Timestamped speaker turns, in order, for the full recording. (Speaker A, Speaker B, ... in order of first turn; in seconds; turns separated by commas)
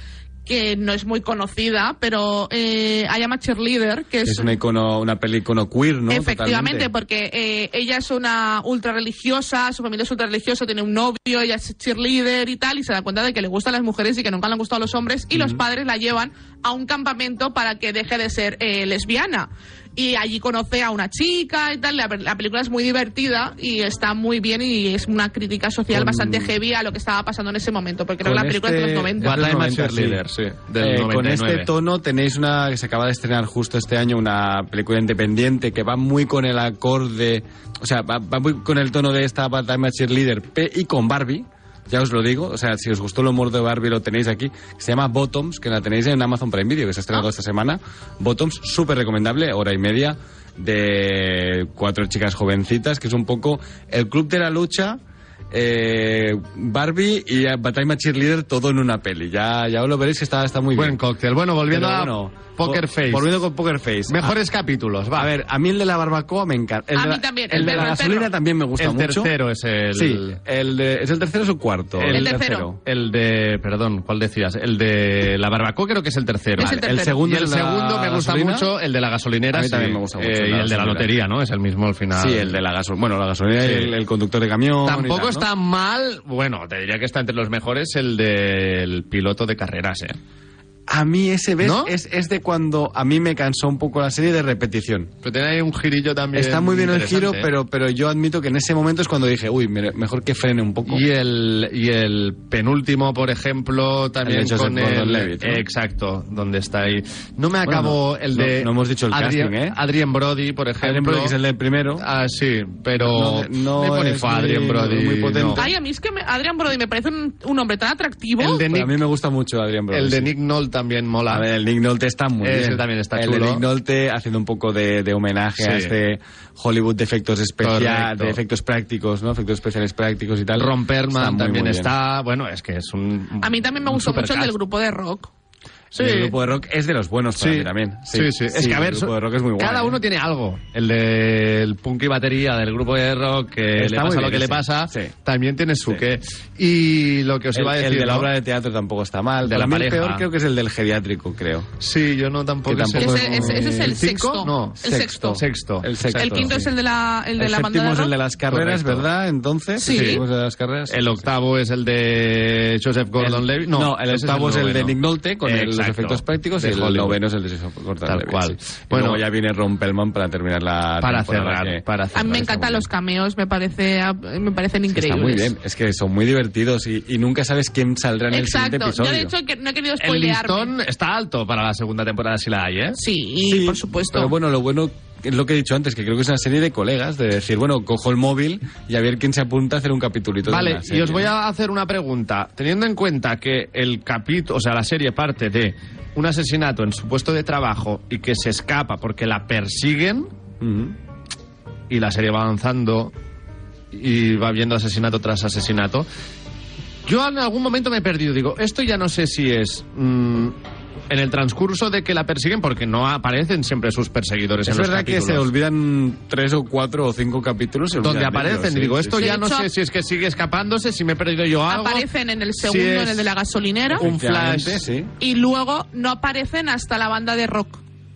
Speaker A: 0.5-4.5, Speaker B: 4.2-6.9, Speaker A: 6.1-29.4, Speaker B: 15.3-15.6, Speaker B: 25.9-26.5, Speaker B: 28.2-30.2, Speaker C: 29.2-31.7, Speaker B: 30.8-55.0, Speaker B: 55.5-61.0, Speaker C: 60.7-63.3, Speaker B: 61.7-64.3, Speaker C: 64.1-65.3, Speaker B: 65.1-69.3, Speaker A: 66.9-68.3, Speaker C: 67.5-67.9, Speaker C: 68.8-70.4, Speaker B: 69.9-72.8, Speaker C: 72.0-82.6, Speaker A: 72.1-72.7, Speaker A: 76.6-77.2, Speaker B: 76.6-78.7, Speaker B: 79.5-81.1, Speaker B: 82.1-85.5, Speaker C: 83.6-83.9, Speaker C: 84.8-90.2, Speaker B: 90.9-95.1, Speaker C: 91.6-91.9, Speaker C: 95.2-97.5, Speaker B: 96.3-101.0, Speaker C: 100.8-111.3, Speaker B: 104.2-105.6, Speaker B: 107.6-109.8, Speaker B: 110.8-112.0, Speaker C: 112.0-115.7, Speaker B: 113.0-115.7, Speaker A: 115.5-118.6, Speaker C: 118.4-119.0, Speaker B: 118.6-120.3, Speaker C: 119.9-121.4, Speaker B: 121.3-131.9, Speaker C: 122.4-123.6, Speaker C: 125.6-125.9, Speaker C: 127.6-128.4, Speaker C: 130.6-134.5, Speaker A: 133.4-135.3, Speaker C: 135.9-136.3, Speaker B: 135.9-140.0, Speaker C: 137.4-148.3, Speaker B: 143.8-145.1, Speaker B: 147.5-151.7, Speaker C: 149.4-150.2, Speaker C: 151.8-156.6, Speaker B: 152.7-153.9, Speaker A: 153.0-155.4, Speaker B: 154.8-156.7, Speaker A: 156.1-158.1, Speaker B: 157.4-161.2, Speaker C: 158.5-159.1, Speaker A: 159.8-160.2, Speaker C: 159.8-160.2, Speaker C: 160.9-167.2, Speaker B: 163.2-171.8, Speaker C: 168.1-169.2, Speaker C: 171.0-172.8, Speaker A: 172.1-175.5, Speaker B: 174.9-179.3, Speaker A: 178.3-180.7, Speaker C: 180.0-183.0, Speaker A: 182.9-184.3, Speaker B: 183.4-191.3, Speaker C: 190.5-200.3, Speaker B: 200.6-200.9, Speaker C: 201.9-203.1, Speaker C: 203.9-206.1, Speaker C: 207.1-210.6, Speaker C: 211.1-215.5, Speaker B: 214.6-219.3, Speaker C: 218.0-222.1, Speaker A: 219.2-219.7, Speaker A: 221.7-224.0, Speaker C: 222.6-223.3, Speaker B: 223.9-225.1, Speaker C: 223.9-224.8, Speaker A: 225.2-227.8